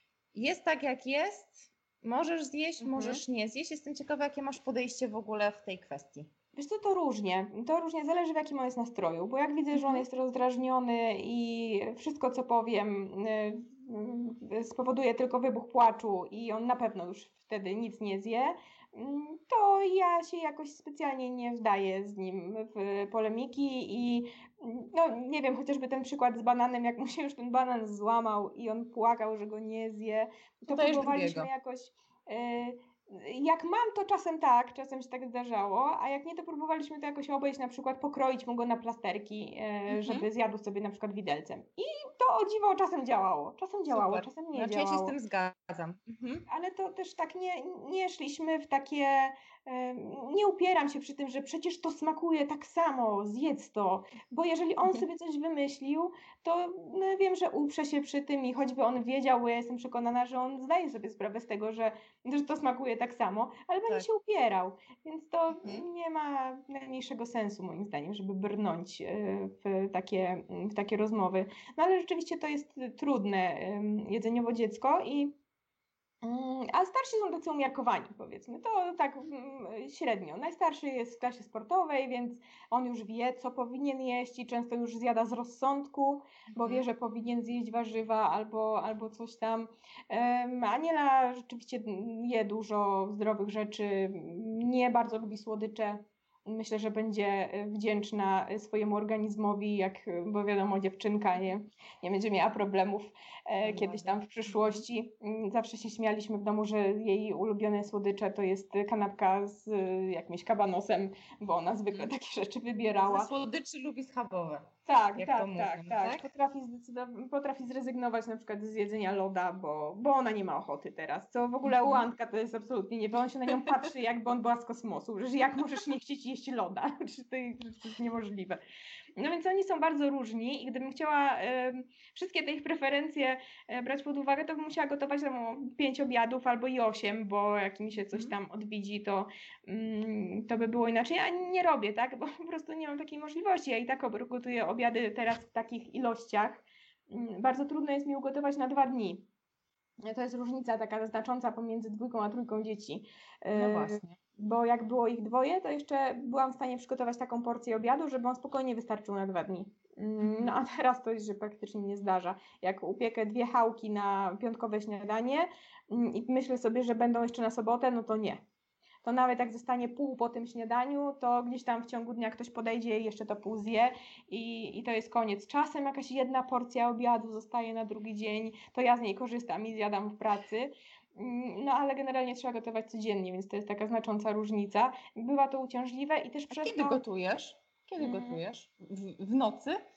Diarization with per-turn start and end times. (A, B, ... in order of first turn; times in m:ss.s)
0:00.3-0:06.3 A
0:02.8-0:03.2 B
0:06.5-0:45.1 B
0:09.7-0:10.0 A
0:30.7-0:31.5 A
0:39.9-0:40.2 A
0:43.9-0:46.4 A
0:46.5-1:15.4 B
1:05.5-1:05.8 A
1:16.2-1:53.3 B
1:26.5-1:26.8 A
1:43.6-1:44.8 A
1:53.1-1:56.2 A
1:54.9-2:08.6 B
2:01.6-2:02.0 A
2:09.2-2:29.3 B
2:30.0-2:48.4 B
2:33.5-2:34.2 A
2:40.2-2:40.5 A
2:49.0-3:07.0 B
3:06.5-3:09.8 A
3:08.0-3:08.4 B